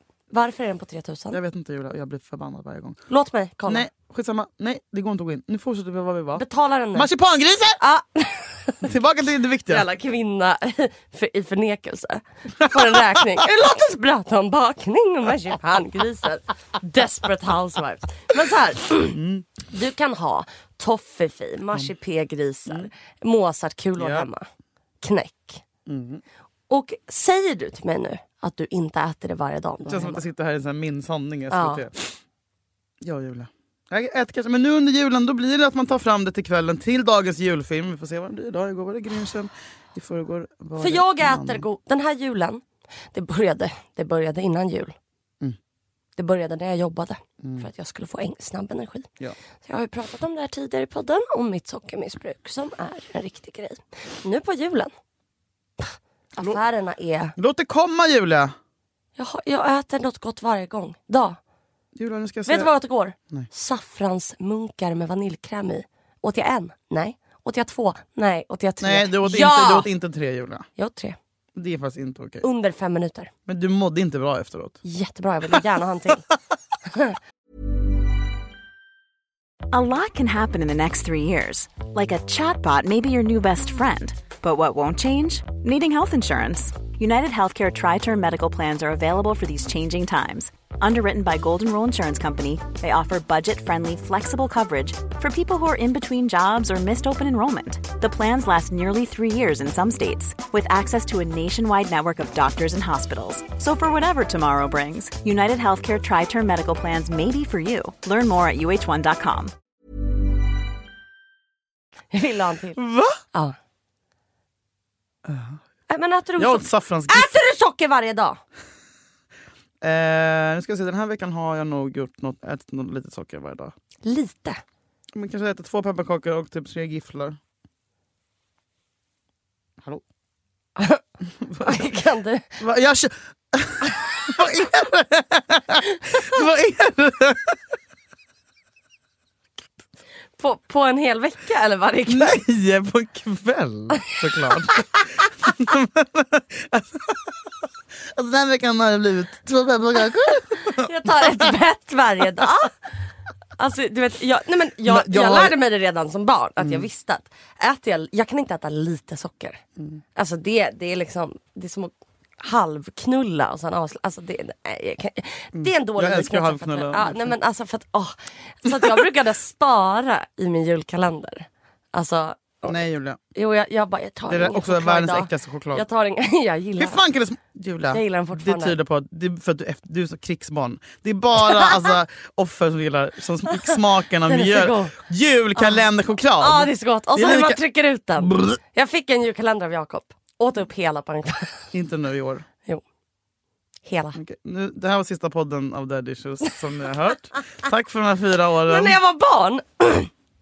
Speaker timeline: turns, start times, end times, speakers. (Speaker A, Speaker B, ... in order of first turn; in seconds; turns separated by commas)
Speaker A: 0.3-1.4, Speaker B: 1.3-3.0, Speaker A: 3.1-3.9, Speaker B: 3.6-6.4, Speaker A: 6.3-7.1, Speaker B: 6.9-7.8, Speaker A: 7.8-8.8, Speaker B: 8.8-9.8, Speaker A: 9.7-24.4, Speaker B: 12.7-13.4, Speaker B: 19.1-19.5, Speaker B: 24.0-24.3, Speaker A: 25.0-25.6, Speaker B: 25.9-26.2, Speaker A: 26.7-30.2, Speaker B: 29.8-32.2, Speaker A: 31.5-31.8, Speaker B: 33.0-41.6, Speaker A: 40.8-45.0, Speaker A: 46.1-49.1, Speaker B: 47.4-47.7, Speaker A: 49.6-54.9, Speaker A: 55.8-57.4, Speaker B: 57.4-58.5, Speaker A: 59.1-61.4, Speaker B: 61.9-62.7, Speaker A: 62.5-69.9, Speaker B: 68.8-70.7, Speaker A: 70.8-71.2, Speaker B: 71.5-72.5, Speaker A: 72.4-73.3, Speaker B: 73.5-74.8, Speaker A: 74.8-76.2, Speaker A: 76.8-77.2, Speaker C: 79.7-109.5, Speaker A: 112.1-112.8, Speaker B: 112.8-113.2, Speaker B: 115.2-115.6, Speaker A: 115.9-118.4, Speaker B: 116.4-117.4, Speaker B: 119.8-123.7, Speaker A: 124.0-124.6, Speaker B: 125.1-127.4, Speaker A: 130.8-131.0, Speaker B: 131.4-131.9, Speaker A: 131.6-132.6, Speaker B: 132.6-137.6, Speaker A: 135.9-136.2, Speaker A: 140.4-142.4, Speaker B: 142.1-147.4, Speaker B: 148.1-151.5, Speaker A: 150.6-152.8, Speaker A: 153.6-159.6, Speaker B: 154.8-155.6, Speaker B: 156.6-156.8, Speaker A: 160.1-172.8, Speaker B: 165.5-167.3, Speaker B: 172.7-173.2, Speaker A: 173.3-177.0, Speaker B: 174.3-175.8, Speaker B: 176.8-187.6, Speaker A: 177.9-178.8, Speaker A: 184.2-184.9, Speaker A: 185.6-185.9, Speaker A: 186.4-191.7, Speaker B: 188.2-188.6, Speaker B: 191.7-192.4, Speaker A: 193.8-194.2, Speaker B: 194.1-199.0, Speaker A: 198.6-200.1